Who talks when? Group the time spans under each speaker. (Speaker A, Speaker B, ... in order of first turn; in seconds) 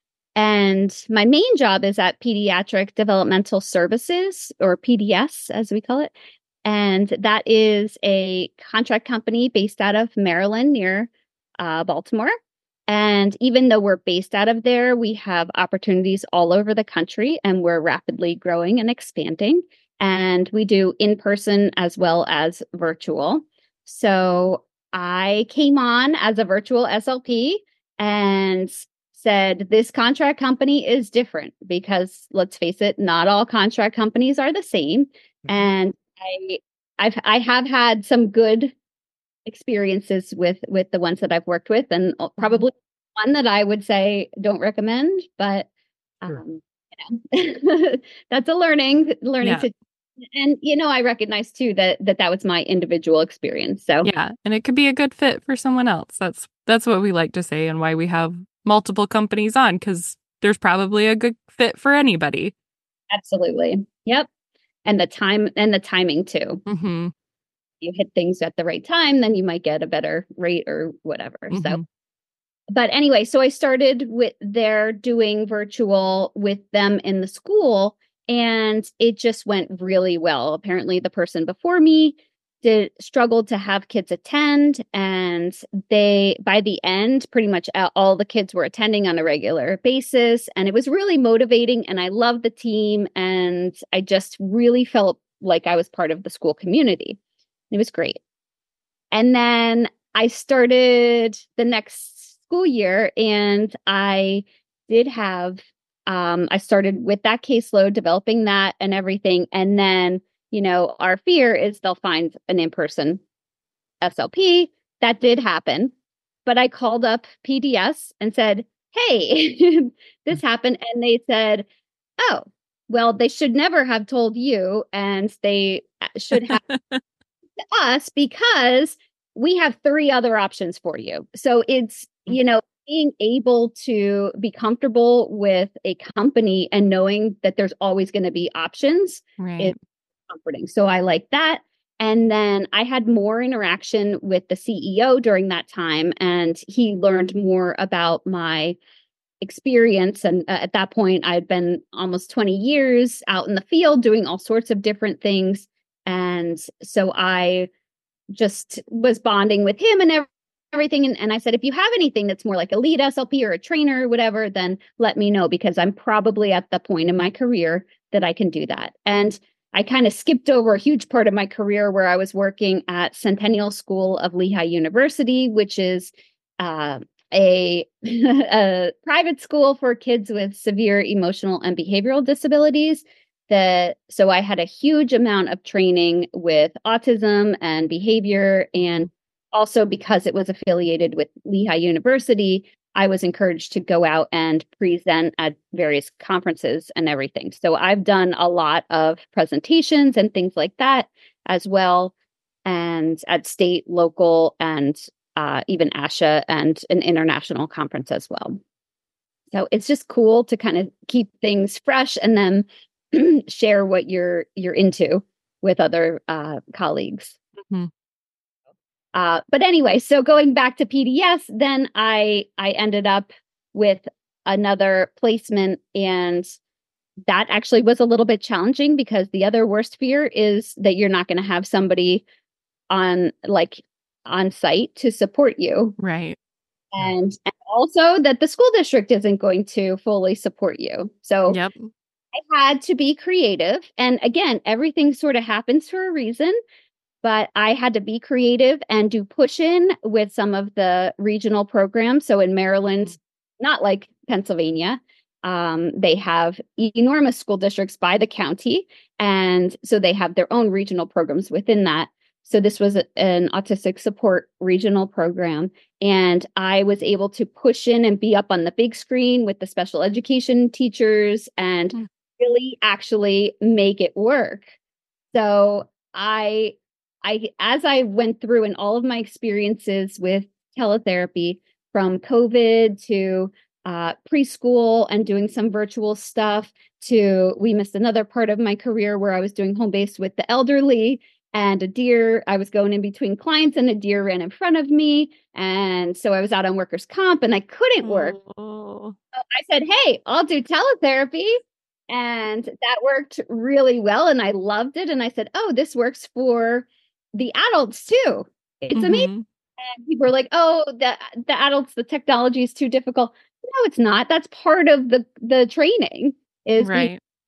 Speaker A: 0.4-6.1, 6.7-12.3, 12.9-38.7, 39.5-45.7, 46.2-49.7, 50.3-54.1, 63.1-64.3, 64.9-66.6, 67.8-71.8, 72.7-97.2, 97.7-98.2, 99.1-113.2, 114.0-115.9, 116.5-121.7, 122.2-126.6, 127.7-139.8, 140.3-148.8, 149.4-157.7, 158.3-202.1, 202.7-208.6, 209.5-217.4, 219.1-226.6, 227.3-232.2, 232.9-236.0, 236.9-241.6, 242.3-246.6, 247.2-274.7, 275.3-298.4, 299.5-317.1
Speaker B: 49.4-49.7, 54.0-62.5, 66.7-67.1, 71.5-71.8, 126.3-127.0, 139.4-139.8, 236.0-236.4, 241.5-241.9, 298.0-299.2, 308.9-309.4, 316.8-317.2